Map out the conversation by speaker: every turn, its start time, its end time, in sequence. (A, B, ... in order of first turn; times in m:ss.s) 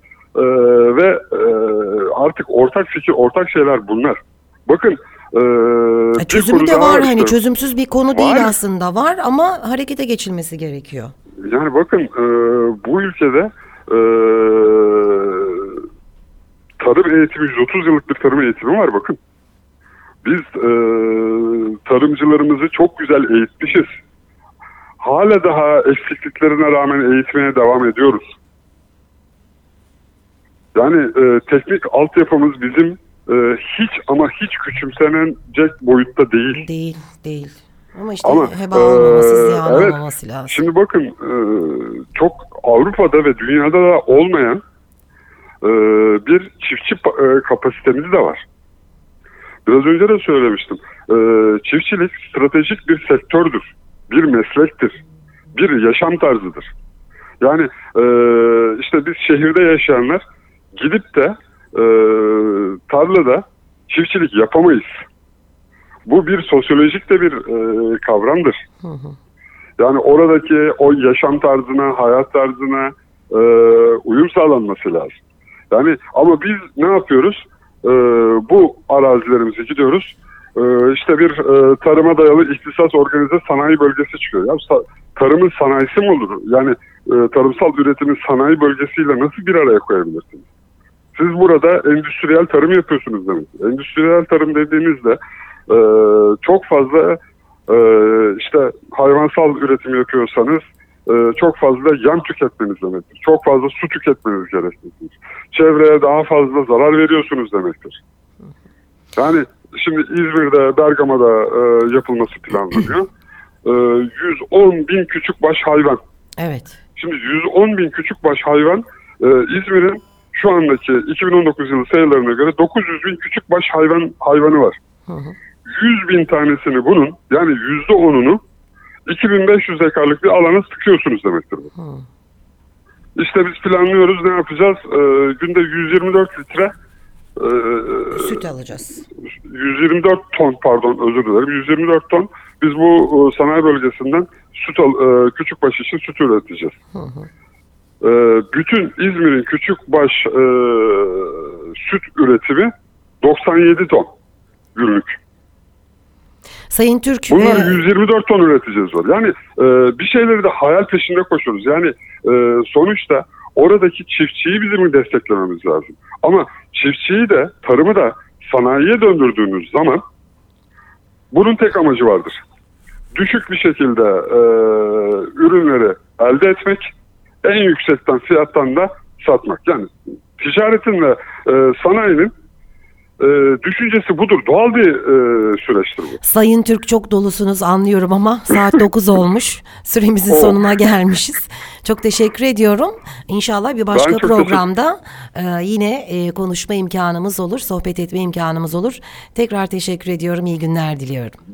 0:00.4-0:07.4 A
0:06.2-0:11.1 B
0:08.1-0:08.6 A
0:11.4-0:15.8 A
0:16.8-0:19.2 A
0:20.2-0:24.0 A
0:25.0-0:28.4 A
0:30.8-0:36.6 A
0:36.5-0:40.6 B
0:38.2-0:44.6 A
0:45.6-0:48.5 A
0:49.7-0:55.0 A
0:55.6-0:56.7 A
0:57.4-1:00.2 A
1:00.8-1:05.1 A
1:06.1-1:08.6 A
1:08.8-1:09.2 B
1:09.8-1:15.2 A
1:15.7-1:30.5 A
1:31.2-1:48.0 A
1:49.2-1:53.1 A
1:53.6-1:56.0 A
1:56.4-1:56.8 B
1:57.0-2:04.8 A
2:05.1-2:05.4 B
2:05.6-2:08.4 A
2:09.1-2:11.7 A
2:11.8-2:12.0 B
2:13.2-2:16.7 A
2:17.4-2:18.5 A
2:18.1-2:19.0 B
2:19.3-2:26.8 A
2:26.9-2:27.3 B
2:28.0-2:34.1 A
2:34.8-2:35.2 A
2:36.7-2:37.8 B
2:37.3-2:50.0 A
2:51.3-2:52.4 A
2:53.2-2:56.9 A
2:57.4-3:02.3 A
3:03.2-3:06.2 A
3:06.2-3:21.4 B
3:10.3-3:10.7 A
3:13.9-3:14.6 A